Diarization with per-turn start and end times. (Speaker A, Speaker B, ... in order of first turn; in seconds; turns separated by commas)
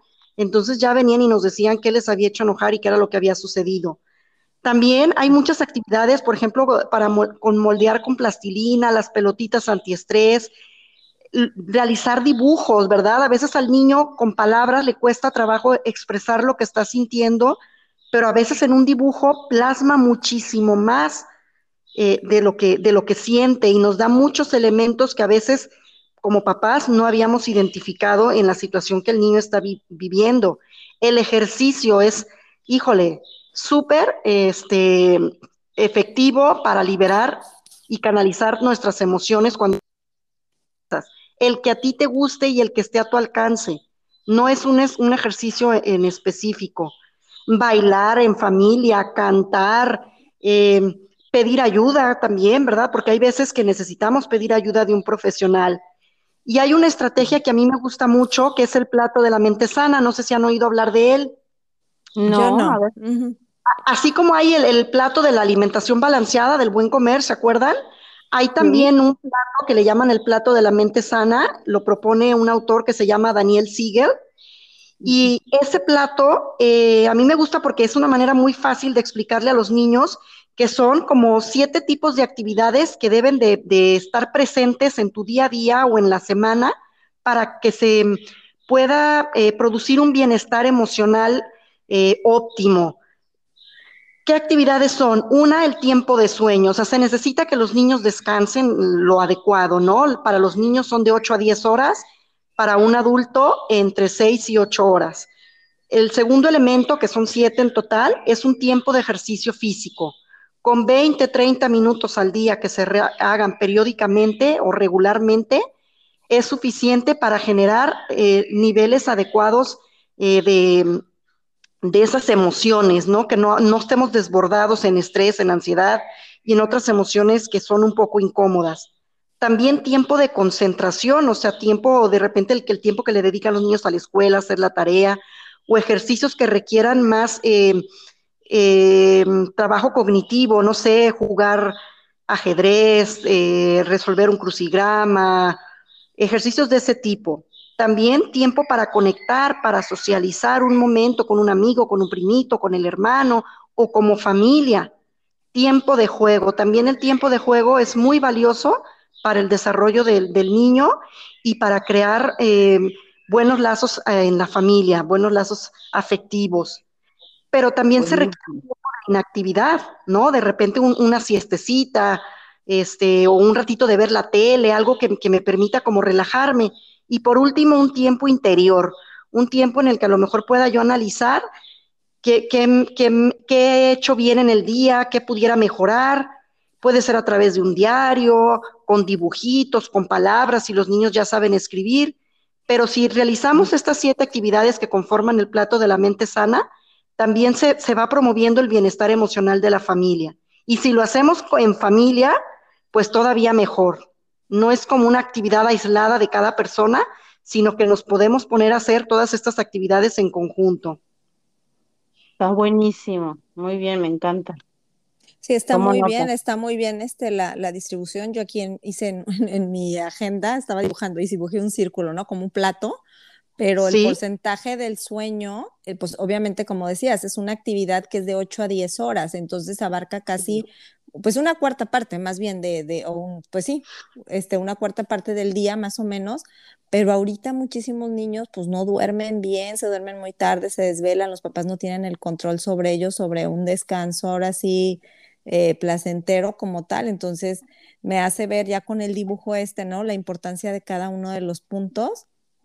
Speaker A: 0.4-4.0, Speaker A: 4.6-10.5, Speaker A: 11.3-17.6, Speaker A: 18.1-21.3, Speaker A: 22.0-25.7, Speaker A: 26.2-39.8, Speaker A: 40.9-47.0, Speaker A: 47.5-55.8, Speaker A: 56.5-61.3, Speaker B: 62.2-62.9, Speaker C: 62.3-63.4, Speaker A: 63.7-67.8, Speaker A: 68.3-74.1, Speaker B: 68.6-68.9, Speaker A: 75.0-93.0, Speaker A: 94.3-102.0, Speaker A: 102.6-105.3, Speaker A: 105.9-115.6, Speaker A: 116.3-121.0, Speaker A: 121.8-128.9, Speaker A: 129.4-137.9, Speaker A: 138.5-141.8, Speaker A: 142.3-145.6, Speaker A: 146.2-154.9, Speaker A: 155.5-166.8, Speaker A: 167.5-181.4, Speaker B: 168.0-168.6, Speaker A: 182.2-186.3, Speaker A: 186.8-192.2, Speaker A: 192.7-196.7, Speaker A: 197.2-202.4, Speaker A: 202.9-211.0, Speaker B: 212.4-214.6, Speaker C: 215.4-223.0, Speaker B: 215.7-216.3, Speaker C: 223.6-230.7, Speaker A: 223.8-224.2, Speaker C: 231.2-252.2